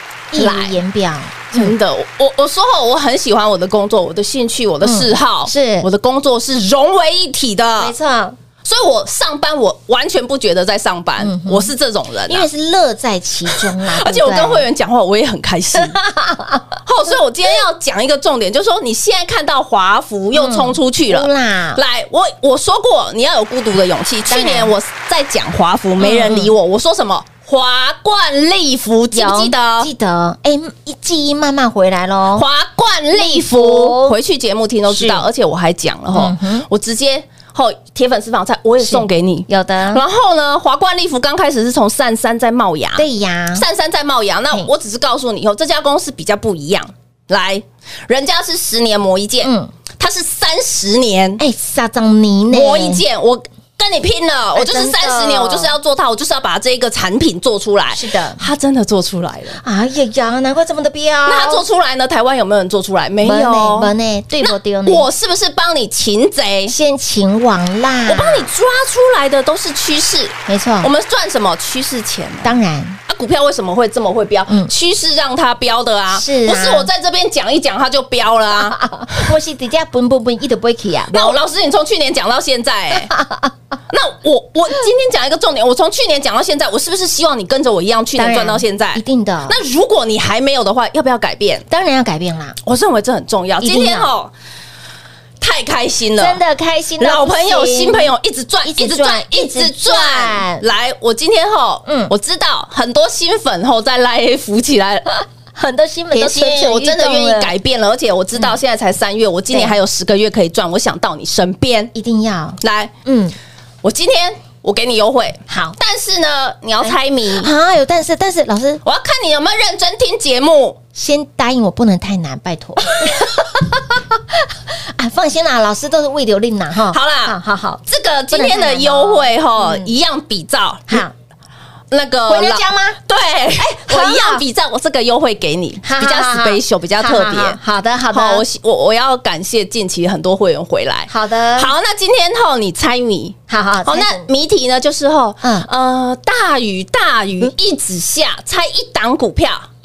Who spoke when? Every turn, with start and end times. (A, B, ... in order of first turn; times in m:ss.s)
0:00.3-0:01.7 A
0:00.4-0:00.8 B
0:01.5-0:07.9 B
0:04.8-0:05.9 A
0:07.8-0:08.4 A
0:08.6-0:12.5 B
0:11.2-0:11.7 A
0:12.3-0:14.7 A
0:13.5-0:16.0 B
0:15.7-0:16.8 A
0:16.8-0:29.9 B
0:20.3-0:21.8 A
0:24.3-0:24.7 A
0:26.0-0:26.5 A
0:29.1-0:32.4 A
0:32.3-0:51.4 B
0:33.1-0:34.2 A
0:34.9-0:35.2 A
0:36.1-0:36.7 A
0:38.8-0:40.0 A
0:43.0-0:43.6 A
0:49.4-0:49.7 A
0:51.4-0:53.0 A
0:52.5-0:59.6 B
0:54.5-0:55.7 A
0:57.9-0:58.4 A
0:59.6-1:01.6 A
1:01.2-1:06.7 B
1:03.2-1:05.1 A
1:06.6-1:08.5 A
1:08.1-1:12.5 B
1:10.4-1:10.9 A
1:12.4-1:13.0 A
1:13.1-1:19.2 B
1:16.1-1:16.9 A
1:18.6-1:21.4 A
1:21.1-1:23.1 B
1:23.1-1:23.5 A
1:23.9-1:31.6 B
1:28.2-1:29.6 A
1:31.7-1:32.6 A
1:32.6-1:34.3 B
1:33.6-1:34.1 A
1:35.4-1:36.4 B
1:36.2-1:38.1 A
1:37.0-1:45.2 B
1:38.6-1:40.6 A
1:41.8-1:42.1 A
1:45.5-1:47.5 A
1:46.1-1:51.9 B
1:49.5-1:49.8 A
1:51.9-1:53.4 A
1:52.6-1:52.9 B
1:53.8-1:57.5 B
1:55.5-1:55.8 A
1:56.8-1:58.8 A
1:58.8-2:00.8 B
2:00.9-2:09.9 A
2:06.9-2:11.0 B
2:10.9-2:11.1 A
2:11.9-2:17.6 B
2:12.3-2:13.0 A
2:13.6-2:14.4 A
2:15.8-2:18.4 A
2:18.1-2:29.7 B
2:21.1-2:21.7 A
2:23.5-2:24.3 A
2:25.4-2:25.7 A